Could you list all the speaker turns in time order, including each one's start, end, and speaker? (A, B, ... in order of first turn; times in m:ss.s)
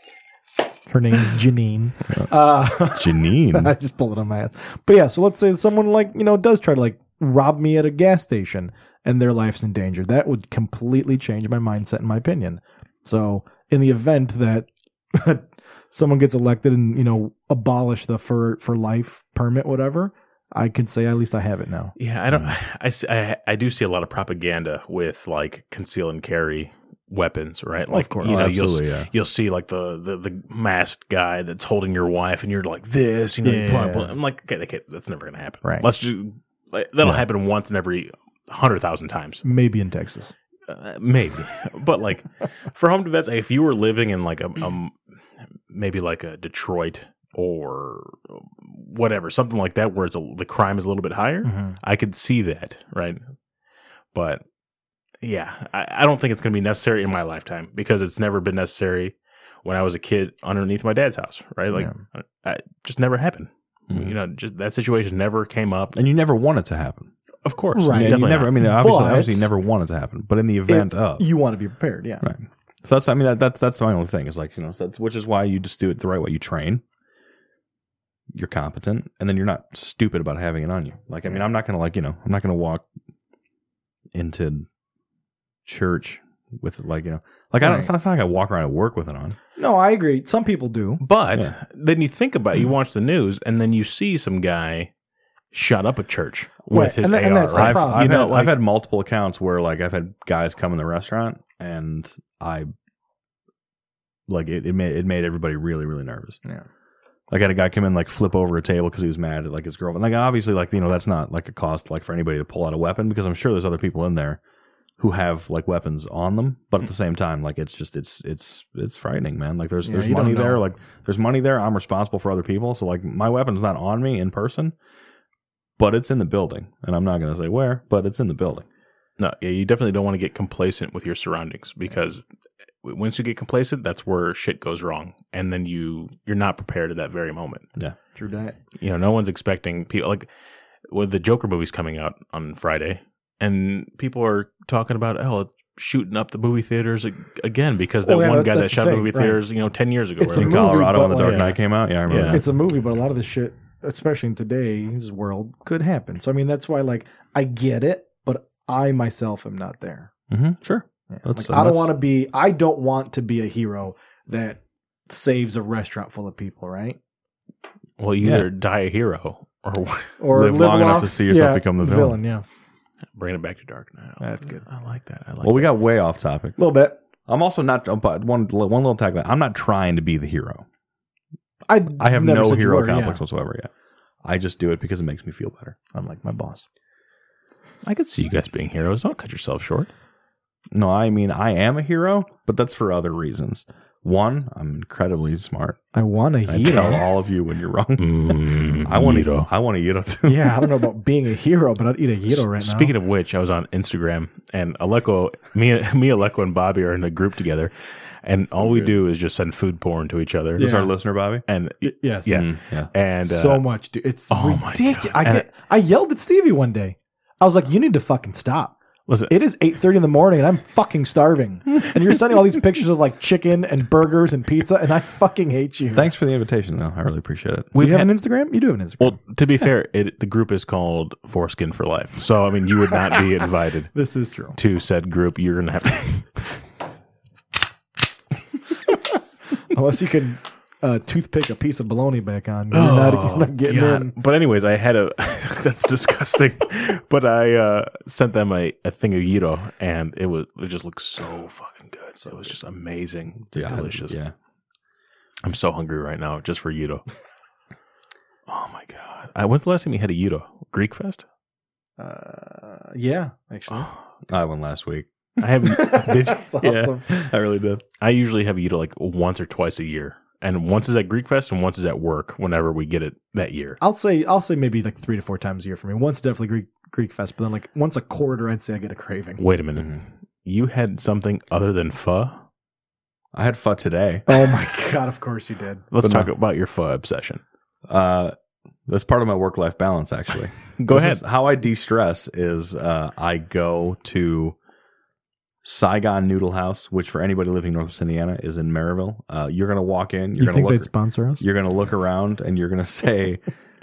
0:00.9-0:21.9 A
0:02.9-0:03.7 B
0:22.0-0:39.4 C
0:27.9-0:28.5 A
0:28.2-0:29.1 B
0:33.4-0:34.1 A
0:39.4-0:40.3 A
0:40.7-0:45.0 C
0:45.7-0:53.2 C
0:51.4-0:51.8 A
0:54.1-0:54.4 C
0:55.2-1:06.0 C
1:05.9-1:07.1 B
1:07.4-1:08.6 C
1:07.7-1:09.5 A
1:07.9-1:11.2 B
1:10.7-1:12.3 A
1:12.2-1:16.8 B
1:18.3-1:22.8 B
1:24.1-1:24.6 B
1:25.6-1:29.4 B
1:27.6-1:27.9 A
1:29.6-1:31.0 A
1:31.0-1:34.9 C
1:35.5-1:38.6 C
1:36.7-1:38.1 A
1:37.5-1:42.7 B
1:44.3-1:46.4 B
1:47.3-1:54.4 B
1:55.0-2:04.7 B
1:59.8-2:00.6 A
2:05.8-2:08.6 B
2:09.2-2:12.2 C
2:12.8-2:17.6 C
2:18.2-2:18.6 A
2:18.8-2:20.3 C
2:20.9-2:31.5 C
2:28.0-2:29.4 A
2:30.2-2:31.4 A
2:30.3-2:32.4 B
2:32.0-2:32.4 C
2:32.2-2:40.1 A
2:40.3-2:41.9 B
2:41.1-2:47.0 A
2:48.0-2:50.2 C
2:48.2-2:48.5 B
2:50.2-2:52.4 A
2:50.3-2:52.2 B
2:53.1-2:55.7 C
2:54.2-2:54.6 A
2:55.4-2:56.6 B
2:56.6-2:57.0 A
2:57.2-3:00.6 B
3:01.7-3:03.2 A
3:02.0-3:03.7 B
3:04.2-3:05.8 B
3:05.9-3:06.6 A
3:07.8-3:09.9 C
3:10.7-3:15.8 B
3:15.9-3:17.0 A
3:16.4-3:20.7 B
3:18.0-3:19.5 C
3:20.2-3:22.9 A
3:22.3-3:30.7 C
3:30.6-3:30.9 A
3:30.6-3:31.4 B
3:31.5-3:33.6 C
3:31.8-3:32.4 A
3:32.3-3:32.9 B
3:33.2-3:38.7 A
3:34.3-3:35.4 C
3:39.1-3:39.3 C
3:39.3-3:46.1 A
3:45.9-3:47.7 B
3:47.7-3:48.1 C
3:47.8-3:49.2 A
3:49.0-3:53.9 C
3:53.9-3:54.6 A
3:54.5-3:56.4 C
3:59.7-4:04.1 A
4:02.7-4:14.2 C
4:13.5-4:14.3 B
4:15.4-4:17.0 C
4:18.5-4:21.2 C
4:22.0-4:23.9 A
4:24.3-4:25.1 B
4:25.4-4:26.5 C
4:25.6-4:27.8 B
4:25.6-4:27.0 A
4:28.0-4:33.8 C
4:33.8-4:39.4 A
4:39.4-4:42.4 C
4:43.3-4:44.3 B
4:44.3-4:45.8 A
4:45.9-4:47.4 C
4:46.0-4:46.3 B
4:47.9-4:48.3 B
4:48.9-4:54.6 B
4:50.8-4:51.2 C
4:55.6-5:03.4 B
5:00.4-5:01.4 A